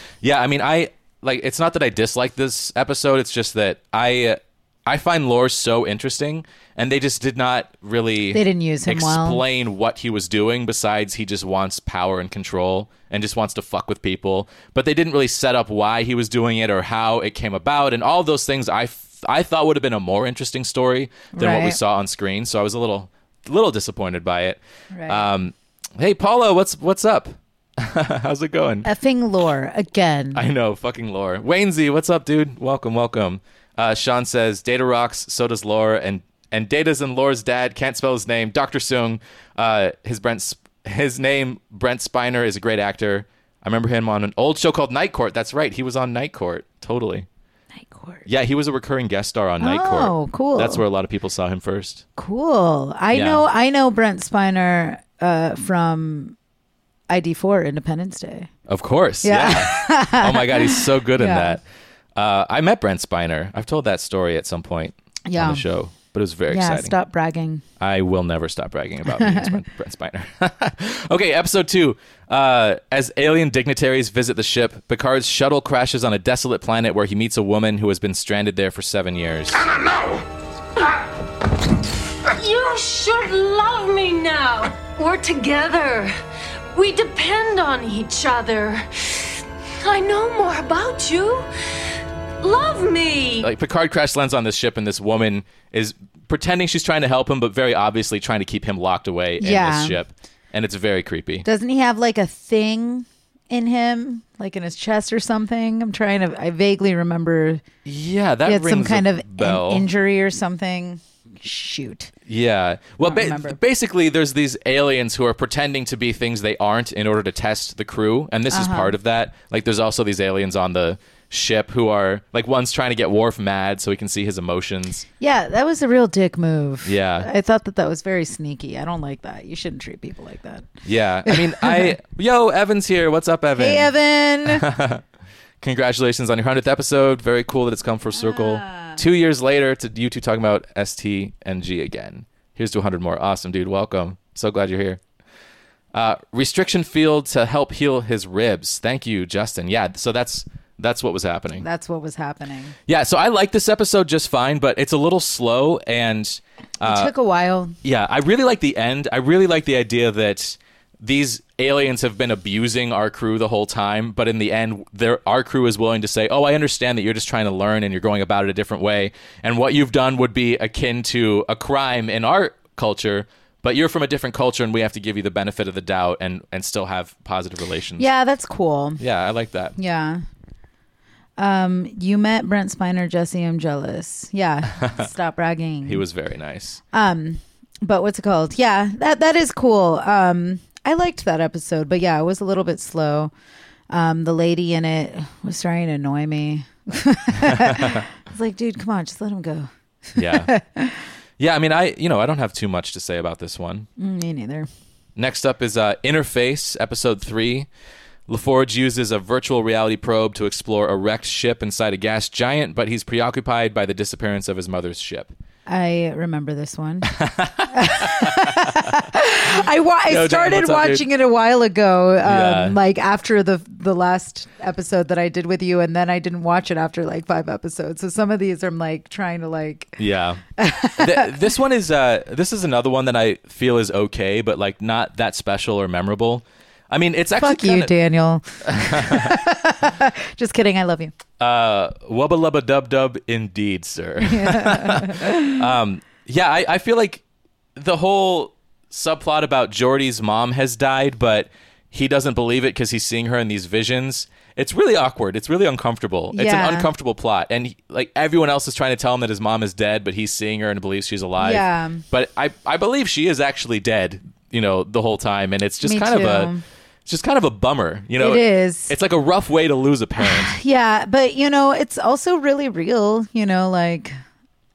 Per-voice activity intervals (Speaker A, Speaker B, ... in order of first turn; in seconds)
Speaker A: 0.2-28.9, 30.4-47.3, 48.2-52.0, 53.1-53.4, 58.7-61.6, 62.1-66.9, 67.8-79.7, 93.4-101.5, 107.8-109.9, 112.3-125.0, 126.8-127.3, 130.8-133.9, 134.4-135.0, 135.6-145.0, 145.9-151.7, 152.9-157.1, 157.8-178.1, 179.0-179.7, 184.8-185.0, 185.8-186.8, 197.4-198.0, 200.1-200.5, 201.4-203.9, 205.2-207.7, 208.3-215.3, 217.1-218.7, 220.1-221.1, 222.2-222.8, 230.0-230.4, 231.0-237.9, 238.6-239.4, 241.4-247.2, 247.8-266.5, 267.1-270.6
Speaker B: 8.3-9.4, 21.3-21.8, 24.9-25.3, 28.9-30.4, 47.7-48.2, 49.6-50.8, 52.2-56.4, 57.1-58.5, 59.2-61.6, 65.2-65.6, 66.5-67.6, 69.1-69.6, 99.4-100.0, 101.4-107.6, 108.4-112.1, 113.0-113.6, 118.5-119.0, 125.2-130.7, 131.2-131.9, 133.6-134.7, 138.1-139.0, 151.6-152.8, 156.8-157.8, 178.0-179.0, 179.8-180.2, 181.4-186.0, 186.9-193.3, 193.9-201.0, 204.0-204.7, 215.7-217.1, 217.7-230.0, 230.6-231.4, 237.4-241.1, 244.2-245.7, 256.3-256.9, 261.4-262.0, 265.8-266.6, 268.2-268.9, 270.2-274.1
Speaker C: 82.3-86.1, 86.7-89.3, 89.8-91.5, 92.4-93.5